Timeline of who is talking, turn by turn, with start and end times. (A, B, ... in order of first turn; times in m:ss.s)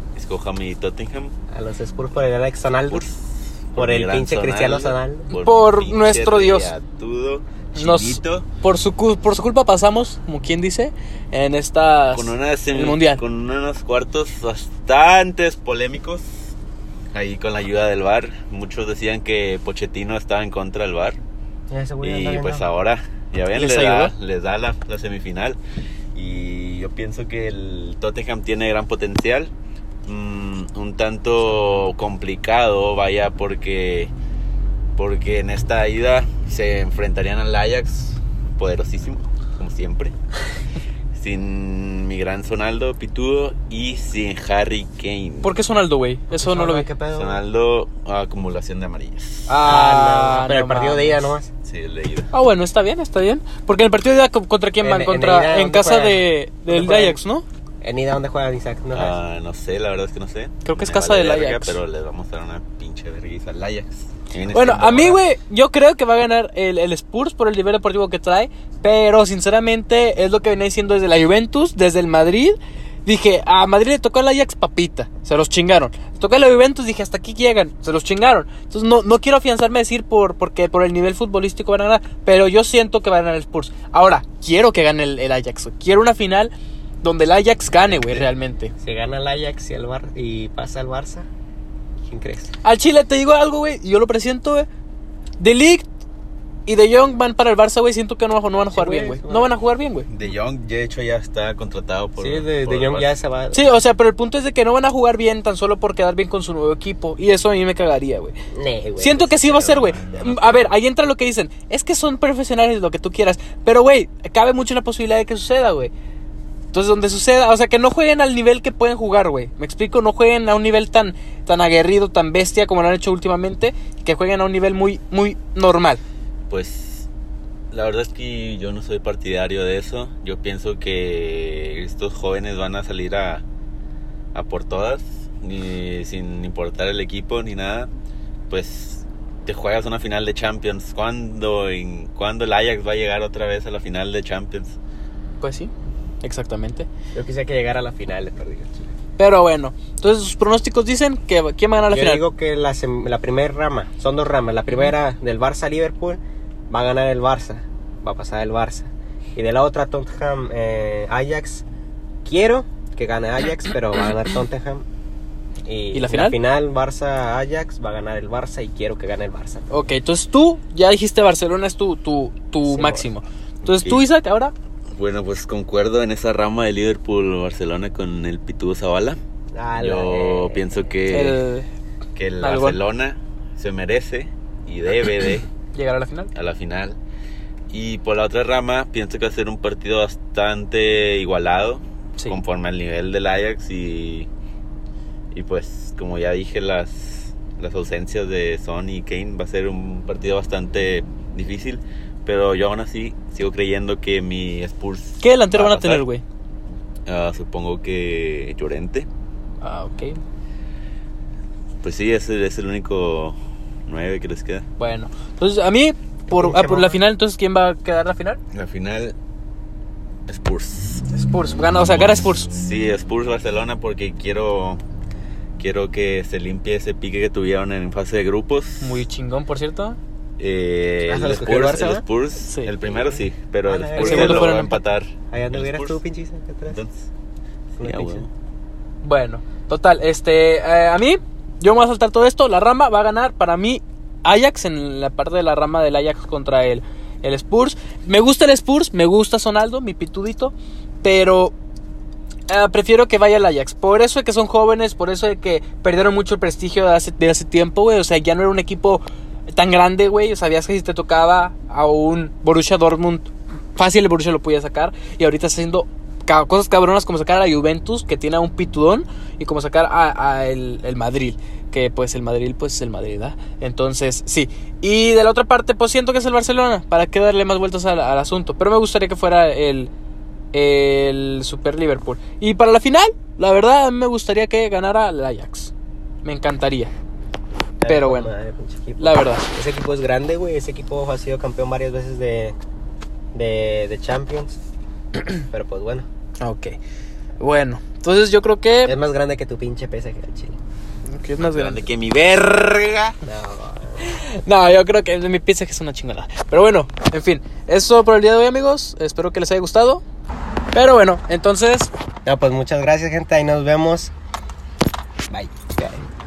0:00.1-0:01.3 A
0:01.5-0:03.0 B
0:02.9-0:08.4 A
0:03.8-0:05.3 B
0:05.3-0:06.7 C
0:07.8-0:13.2 C
0:12.1-0:16.5 A
0:17.1-0:21.2 A
0:21.7-0:22.6 B
0:22.0-0:25.6 A
0:23.5-0:24.1 C
0:26.1-0:29.5 A
0:30.0-0:34.1 A
0:35.0-0:40.1 A
0:41.1-0:45.5 A
0:45.4-0:46.9 C
0:46.3-0:47.4 B
0:47.1-0:49.6 A
0:49.5-0:51.3 C
0:49.6-0:51.5 B
0:51.6-0:52.3 A
0:52.3-0:57.4 C
0:54.8-0:57.2 B
0:57.8-0:59.2 B
0:58.9-1:05.2 A
1:00.6-1:01.8 C
1:04.5-1:28.7 C
1:27.8-1:28.2 A
1:28.8-1:31.3 B
1:32.0-1:32.5 B
1:32.6-1:34.7 C
1:35.4-1:35.9 C
1:36.7-1:40.1 C
1:38.7-1:39.5 B
1:40.1-1:43.1 A
1:42.2-1:43.8 B
1:43.5-1:48.3 C
1:48.5-1:50.0 B
1:49.0-1:55.9 C
1:49.8-1:50.7 A
1:56.7-2:06.0 C
2:06.5-2:07.1 A
2:07.7-2:13.4 A
2:14.3-2:17.9 A
2:18.5-2:24.8 A
2:25.4-2:25.7 C
2:26.2-2:26.9 C
2:27.1-2:28.9 B
2:29.2-2:32.2 C
2:31.9-2:41.6 B
2:42.2-2:44.8 B
2:45.6-2:49.7 B
2:45.9-2:46.4 C
2:49.7-2:54.5 C
2:52.7-2:53.0 B
2:53.6-2:54.0 A
2:54.9-2:59.2 A
2:59.5-3:00.9 B
2:59.8-3:01.4 A
3:01.1-3:01.7 C
3:02.2-3:05.5 A
3:02.4-3:02.8 C
3:05.7-3:06.3 C
3:06.3-3:07.0 A
3:07.7-3:14.3 A
3:15.3-3:26.0 A
3:25.2-3:26.2 C
3:27.0-3:29.1 A
3:29.6-3:30.2 C
3:31.8-3:34.6 A
3:34.8-3:38.4 C
3:36.3-3:37.0 B
3:38.5-3:39.1 A
3:40.3-3:41.1 A
3:41.1-3:42.5 C
3:41.7-3:44.8 A
3:45.6-3:49.0 A
3:48.8-3:50.0 C
3:50.4-3:56.0 A
3:51.1-3:52.0 B
3:52.4-3:53.1 C
3:53.6-3:54.7 B
3:53.9-3:54.8 C
3:55.3-3:56.8 B
3:56.7-3:57.1 A
3:57.8-3:58.3 A
3:57.8-3:58.2 B
3:59.0-4:11.5 C
4:12.5-4:39.9 C
4:40.5-4:45.7 C
4:46.2-4:46.9 C
4:47.8-4:52.6 B
4:47.9-4:48.3 C
4:49.0-4:49.5 C
4:53.3-4:54.6 B
4:55.5-4:56.1 B
4:56.4-4:56.8 C
4:57.4-4:59.0 C
4:58.8-5:00.6 B
5:01.1-5:01.8 C
5:01.4-5:03.2 A
5:03.2-5:04.1 B
5:04.0-5:10.0 C
5:10.7-5:11.9 C
5:12.2-5:14.1 B
5:15.3-5:16.0 B